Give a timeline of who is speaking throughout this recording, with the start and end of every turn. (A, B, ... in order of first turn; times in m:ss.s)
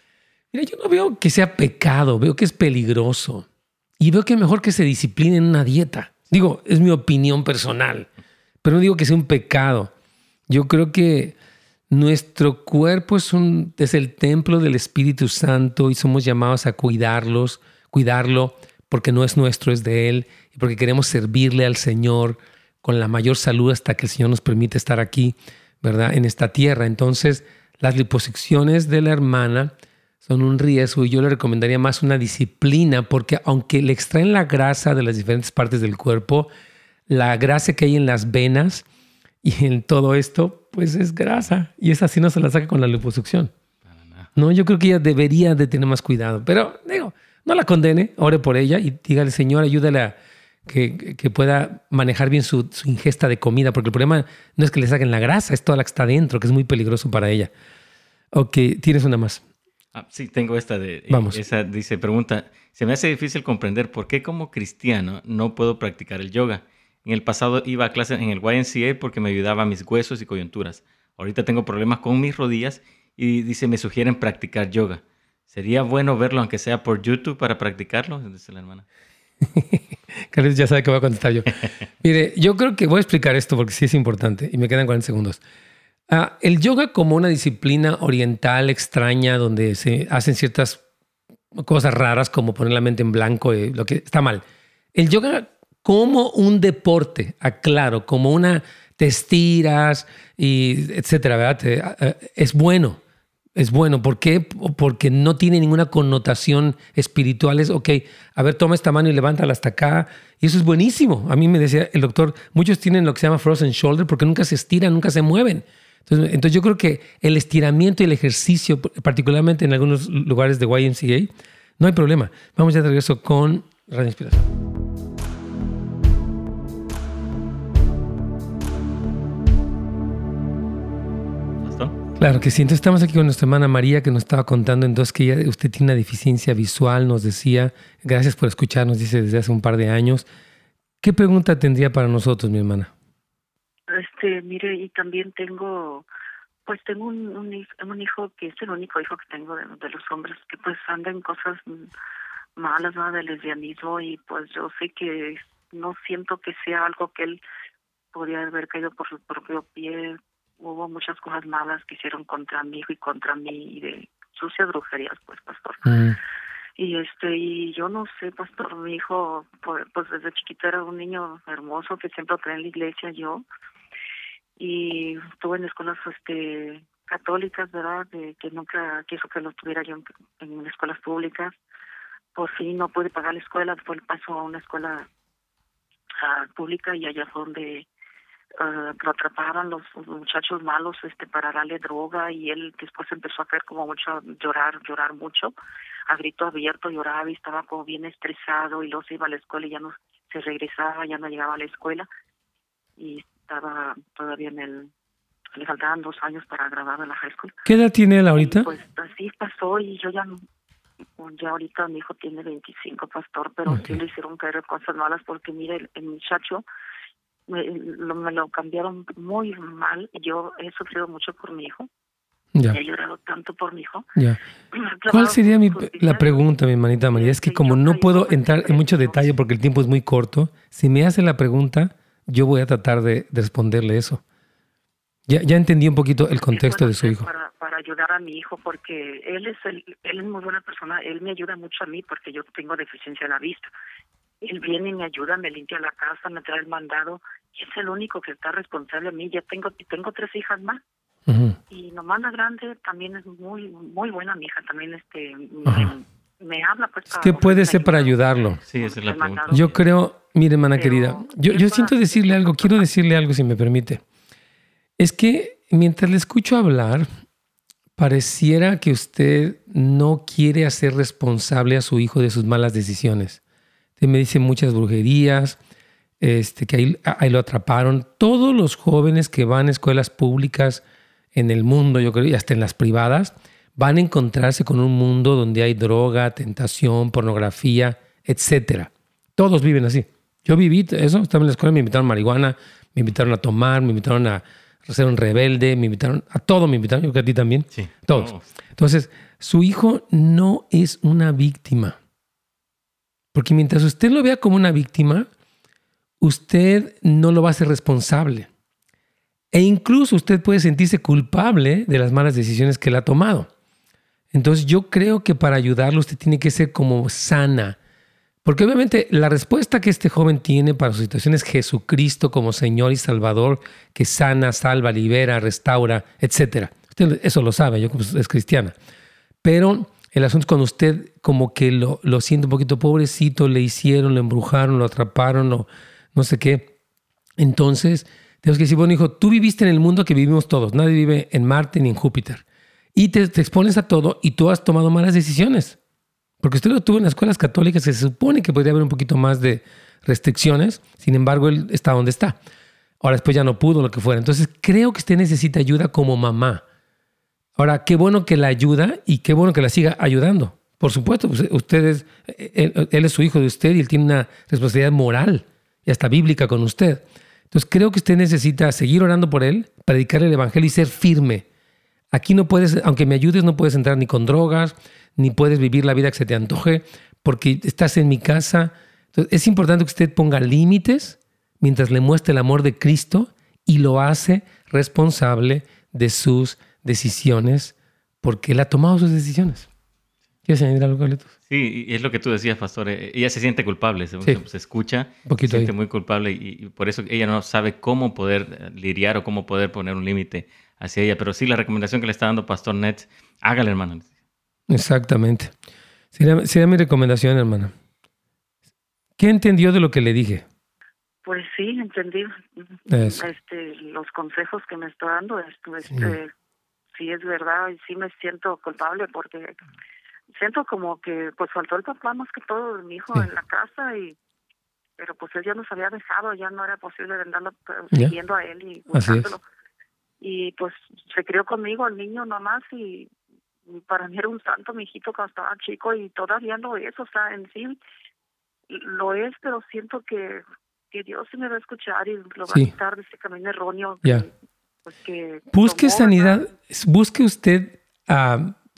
0:00.5-0:03.5 A
0:04.0-0:08.1 A
0:08.6-0:09.9 A
0:10.5-0:11.4 A
0:11.9-0:29.7 A
0:30.2-0:36.5 A
0:37.1-0:38.9 A
0:39.4-0:43.5 A
0:43.8-0:44.3 B
0:44.4-0:50.2 A
0:50.7-0:57.5 A
0:58.3-0:59.4 A
1:00.0-1:18.8 B
1:01.1-1:01.4 A
1:19.4-1:25.4 A
1:26.1-1:30.8 A
1:31.5-1:43.0 A
1:43.6-2:04.5 A
2:11.6-2:12.0 B
2:12.2-2:20.3 A
2:21.0-2:22.9 A
2:23.9-2:26.1 C
2:26.6-2:31.9 C
2:32.6-2:37.4 C
2:38.1-2:45.8 C
2:45.8-2:46.2 A
2:46.8-2:53.5 C
2:54.6-3:01.6 C
3:02.4-3:05.1 C
3:06.2-3:07.9 C
3:08.6-3:15.6 C
3:16.1-3:22.1 C
3:23.0-3:24.9 C
3:25.5-3:27.5 C
3:27.6-3:28.7 A
3:28.4-3:30.4 C
3:31.2-3:36.6 C
3:33.7-3:34.0 A
3:37.5-3:41.9 C
3:42.7-3:44.1 C
3:44.7-3:46.4 C
3:45.1-3:54.2 A
3:47.1-3:49.4 C
3:55.3-3:57.3 A
3:56.5-4:03.7 C
4:04.4-4:10.8 C
4:11.3-4:11.6 A
4:11.7-4:19.7 C
4:15.7-4:15.9 A
4:17.1-4:18.6 A
4:18.7-4:19.8 B
4:19.5-4:24.0 A
4:20.7-4:22.8 C
4:25.0-4:27.1 A
4:28.0-4:33.4 A
4:34.0-4:35.6 A
4:36.2-4:40.8 A
4:41.4-5:02.0 A
4:57.7-4:58.5 B
5:03.3-5:05.3 A
5:06.2-5:08.5 A
5:09.5-5:13.5 A
5:14.3-5:17.8 A
5:18.4-5:28.8 A
5:29.4-5:36.7 A
5:37.4-5:42.4 A
5:43.0-5:45.8 A
5:46.4-5:52.4 A
5:53.0-5:56.6 A
5:57.6-6:11.5 A
6:12.1-6:29.7 A
6:30.5-6:31.3 A
6:31.5-6:44.1 B
6:35.2-6:35.7 A
6:44.7-6:45.5 A
6:46.1-6:47.7 A
6:49.2-6:50.4 A
6:51.2-6:56.3 C
6:52.9-6:53.3 A
6:55.9-6:56.1 A
6:56.9-6:59.6 C
7:00.3-7:04.2 C
7:05.0-7:09.4 C
7:08.9-7:09.3 A
7:10.2-7:13.1 C
7:13.7-7:17.8 C
7:18.7-7:24.3 C
7:24.8-7:26.4 C
7:25.5-7:28.6 A